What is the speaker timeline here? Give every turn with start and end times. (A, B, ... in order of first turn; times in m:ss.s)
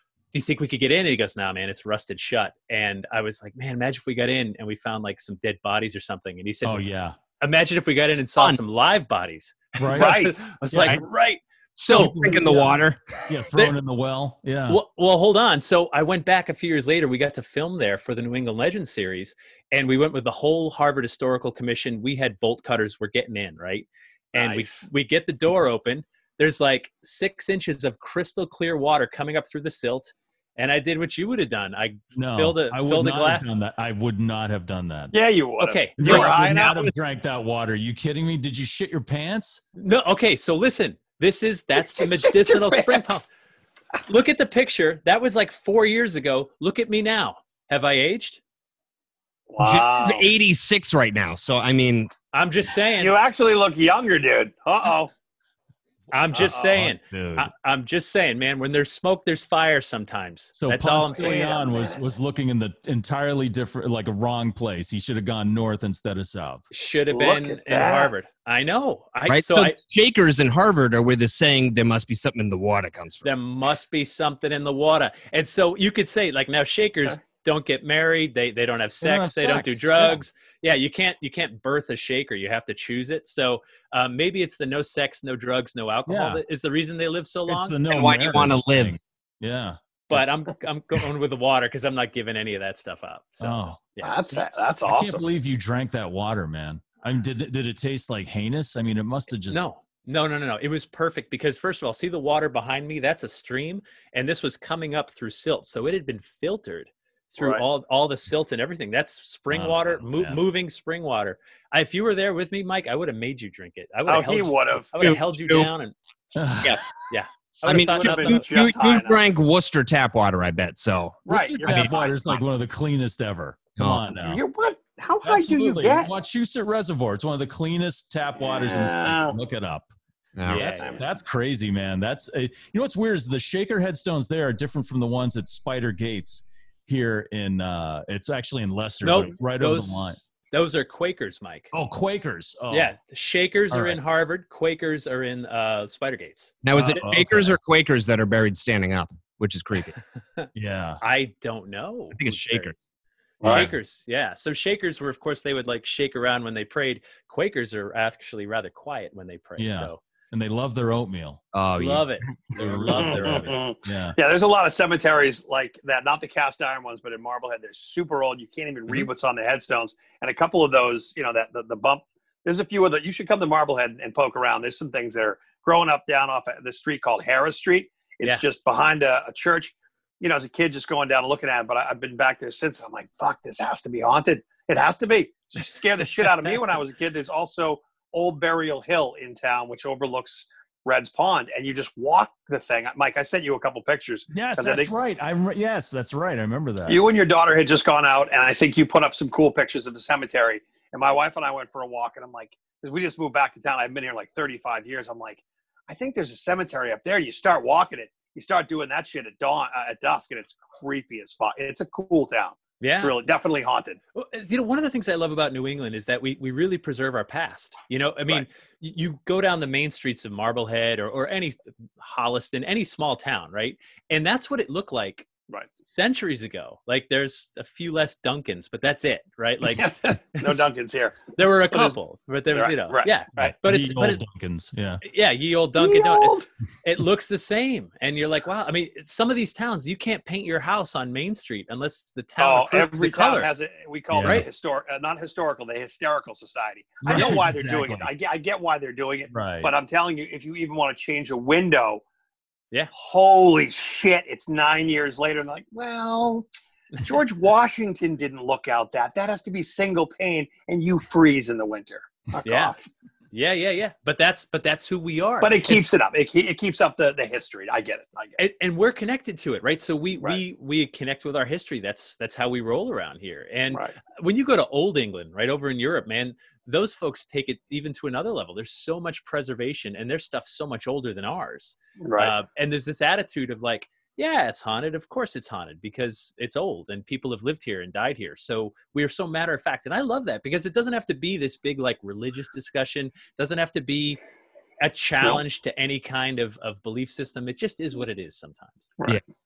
0:00.3-0:06.8 A
0:06.6-0:07.2 B
0:07.4-0:12.2 A
0:09.8-0:11.0 B
0:09.9-0:11.1 C
0:11.8-0:13.0 D
0:11.9-0:14.8 B
0:14.7-0:33.5 A
0:24.3-0:24.9 C
0:32.1-0:35.1 B
0:35.1-0:36.9 C
0:35.6-0:36.4 A
0:36.0-0:39.6 B
0:39.8-0:43.3 A
0:41.8-0:43.1 C
0:44.1-0:48.4 A
0:49.5-0:50.3 C
0:49.6-0:52.1 D
0:52.3-0:53.2 A
0:53.0-0:55.1 C
0:56.1-1:01.5 A
0:56.4-0:56.8 C
0:56.4-0:57.5 B
1:00.5-1:06.7 B
1:01.1-1:02.0 C
1:06.7-1:09.8 A
1:07.1-1:08.2 C
1:09.3-1:13.3 D
1:13.2-1:27.8 A
1:19.0-1:20.2 B
1:26.1-1:26.4 B
1:27.5-1:30.3 B
1:27.9-1:29.0 D
1:30.1-1:34.2 A
1:33.4-1:33.8 B
1:34.0-1:35.2 C
1:34.3-1:39.6 B
1:39.5-1:56.0 A
1:47.4-1:47.6 C
1:49.5-1:50.4 B
1:54.1-1:55.0 C
1:55.0-1:55.7 D
1:56.4-1:56.8 B
1:57.1-1:58.4 A
1:57.6-2:01.9 D
1:58.0-1:59.2 C
2:01.3-2:02.4 C
2:01.3-2:04.4 B
2:03.8-2:04.0 D
2:04.2-2:06.1 C
2:05.2-2:09.9 B
2:08.4-2:09.4 C
2:10.4-2:10.7 D
2:10.5-2:11.0 A
2:10.5-2:20.2 B
2:19.0-2:21.7 A
2:21.7-2:22.9 B
2:22.7-2:26.6 A
2:23.7-2:24.0 B
2:26.6-2:30.0 D
2:26.7-2:27.6 B
2:30.5-2:31.0 B
2:31.0-2:32.7 A
2:32.1-2:32.7 D
2:33.4-2:33.7 B
2:33.4-2:40.0 A
2:39.6-2:41.4 B
2:41.5-2:42.4 D
2:41.8-2:43.5 A
2:42.6-2:44.2 B
2:42.9-3:14.9 C
3:14.3-3:17.0 B
3:16.9-3:34.0 C
3:32.8-3:33.2 A
3:34.2-3:45.3 A
3:45.8-3:50.6 A
3:49.6-3:52.0 C
3:51.4-3:54.2 A
3:52.5-3:53.5 C
3:53.4-3:55.0 B
3:55.0-4:03.5 A
3:55.8-3:56.5 C
4:02.4-4:12.0 C
4:04.1-4:04.5 B
4:07.0-4:08.1 B
4:09.3-4:09.7 B
4:12.9-4:16.5 C
4:17.0-4:22.9 C
4:22.4-4:22.8 A
4:23.3-4:25.9 A
4:25.4-4:28.4 C
4:28.4-4:54.2 A
4:42.0-4:42.3 C
4:54.8-4:58.9 A